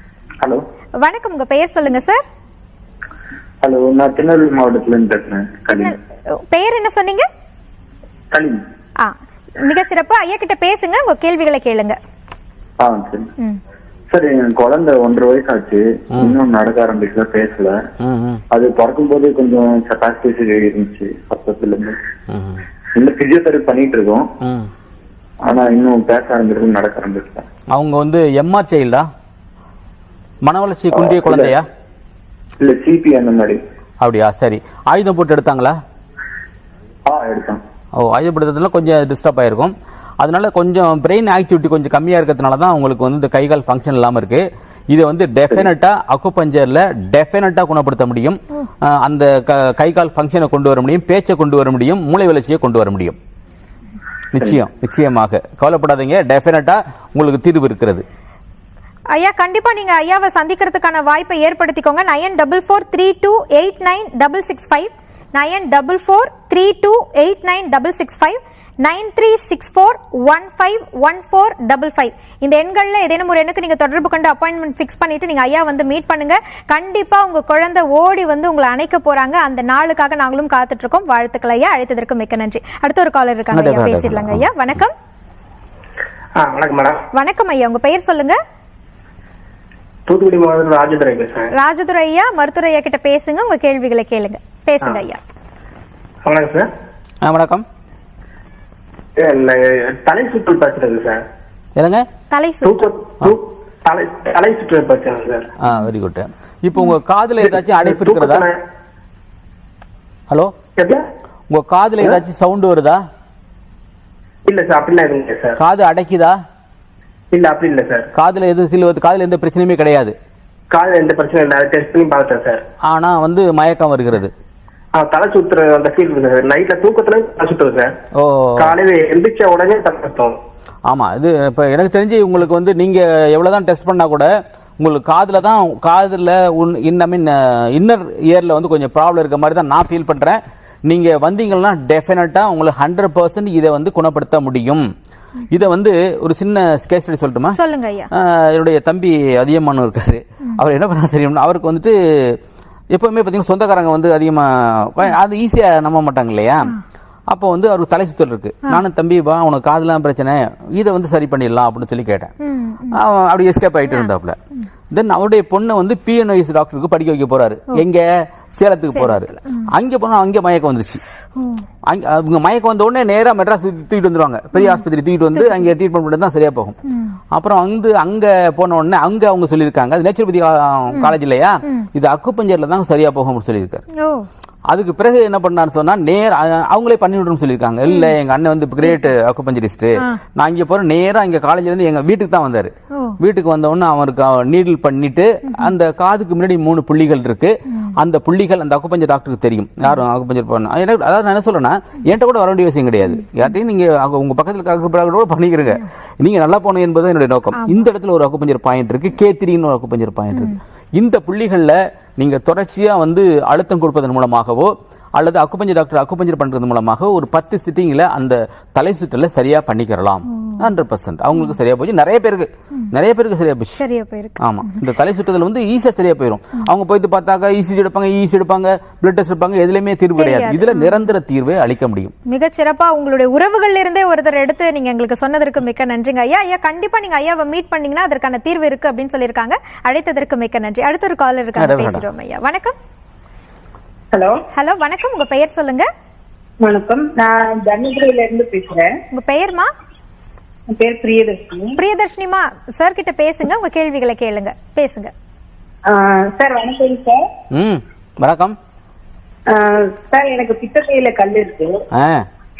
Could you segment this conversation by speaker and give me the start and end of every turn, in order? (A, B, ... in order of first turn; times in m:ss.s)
0:01.0-0:02.2 A
0:03.6-0:06.0 B
0:05.7-0:06.0 A
0:06.5-0:07.3 A
0:08.3-0:08.6 B
0:09.6-0:12.0 A
0:12.8-0:13.3 B
0:14.1-0:17.7 B
0:18.0-0:18.4 C
0:18.5-0:22.0 B
0:22.3-0:22.6 C
0:23.0-0:24.2 B
0:24.4-0:24.7 C
0:25.4-0:27.4 B
0:27.7-0:29.1 C
0:30.4-0:31.6 C
0:31.0-0:31.5 B
0:32.6-0:33.6 B
0:34.0-0:35.8 C
0:37.1-0:37.6 B
0:38.0-0:53.2 C
0:54.3-0:58.0 C
0:59.1-1:24.9 A
1:23.5-1:24.5 C
1:26.4-1:27.0 D
1:27.1-1:28.4 A
1:30.1-1:31.5 D
1:31.5-1:35.2 A
1:36.2-1:36.7 D
1:37.2-1:37.6 C
1:39.2-1:41.2 D
1:41.8-1:42.0 C
1:42.3-1:42.9 A
1:42.6-1:45.5 D
1:45.6-1:48.5 C
1:47.8-1:48.6 D
1:50.8-1:51.0 D
1:51.5-1:53.0 C
1:54.4-1:55.6 D
1:55.6-1:56.4 C
1:57.3-1:58.1 D
1:58.1-2:00.1 C
2:00.7-2:02.6 D
2:02.9-2:04.3 C
2:05.0-2:07.9 D
2:08.2-2:08.7 C
2:08.6-2:10.4 D
2:10.9-2:24.8 C
2:25.5-2:27.6 C
2:27.6-2:28.1 A
2:28.1-2:32.4 C
2:32.9-2:36.7 C
2:37.3-2:42.3 C
2:42.4-2:43.0 A
2:42.9-2:44.4 C
2:44.9-2:51.0 C
2:48.9-2:49.7 A
2:51.4-2:51.6 A
2:51.8-2:56.7 C
2:54.6-2:54.8 A
2:55.4-2:55.7 A
2:56.9-2:57.2 A
2:57.3-3:03.8 C
3:04.0-3:04.3 A
3:04.7-3:43.8 C
3:27.5-3:27.8 A
3:40.3-3:40.6 A
3:43.8-3:44.4 A
3:44.4-3:52.1 C
3:50.2-3:51.0 A
3:52.3-4:02.8 A
4:01.6-4:02.0 C
4:04.1-4:04.4 E
4:04.5-4:05.9 A
4:06.6-4:08.9 E
4:09.1-4:09.7 A
4:10.7-4:11.8 E
4:11.8-4:15.1 A
4:15.9-4:17.2 E
4:17.5-4:18.6 C
4:19.5-4:21.8 E
4:22.0-4:22.2 C